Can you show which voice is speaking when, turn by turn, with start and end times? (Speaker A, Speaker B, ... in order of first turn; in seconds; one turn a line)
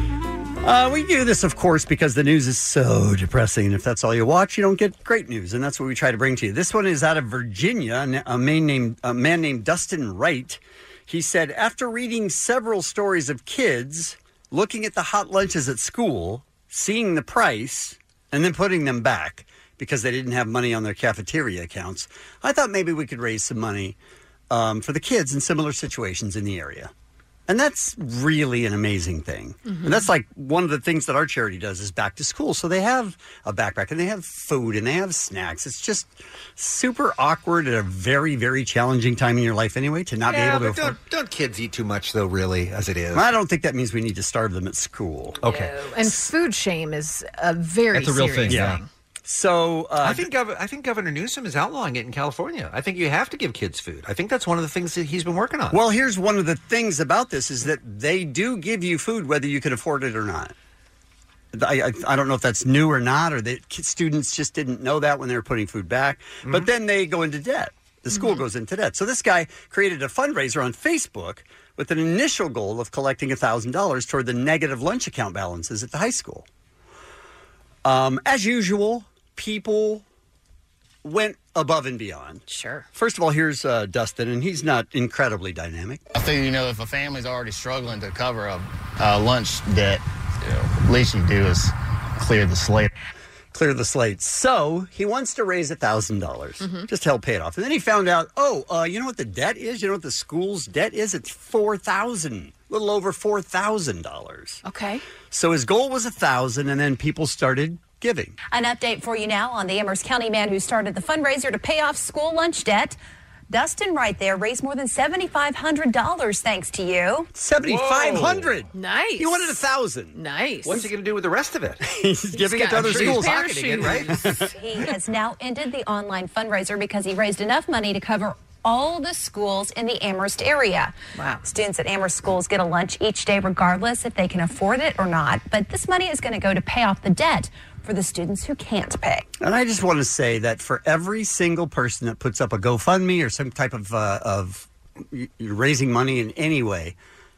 Speaker A: 0.6-24.0
Speaker A: 24.5-26.9
Speaker A: 27.5-41.0
Speaker B: 29.7-30.1
Speaker C: 40.3-43.3
Speaker A: 43.1-45.4
Speaker C: 45.4-45.8
Speaker B: 45.4-48.9
Speaker C: 47.9-48.8
Speaker A: 48.5-50.3
Speaker C: 50.0-55.8
Speaker A: 55.7-60.5
Speaker A: 61.5-76.5
Speaker B: 68.1-68.4
Speaker A: 77.8-80.0
Speaker A: 81.0-82.4
Speaker B: 82.5-82.9
Speaker A: 82.9-86.0
Speaker D: 86.1-92.9
Speaker A: 93.5-104.6
Speaker B: 96.6-96.9
Speaker B: 104.6-105.0
Speaker A: 105.3-108.4
Speaker E: 108.5-113.0
Speaker E: 113.5-117.3
Speaker A: 117.3-120.2
Speaker C: 117.9-118.3
Speaker B: 118.7-119.6
Speaker B: 120.1-120.9
Speaker C: 120.7-121.8
Speaker A: 121.8-124.5
Speaker B: 122.3-124.5
Speaker C: 122.8-124.4
Speaker E: 124.5-139.3
Speaker B: 131.2-131.4
Speaker A: 139.4-147.0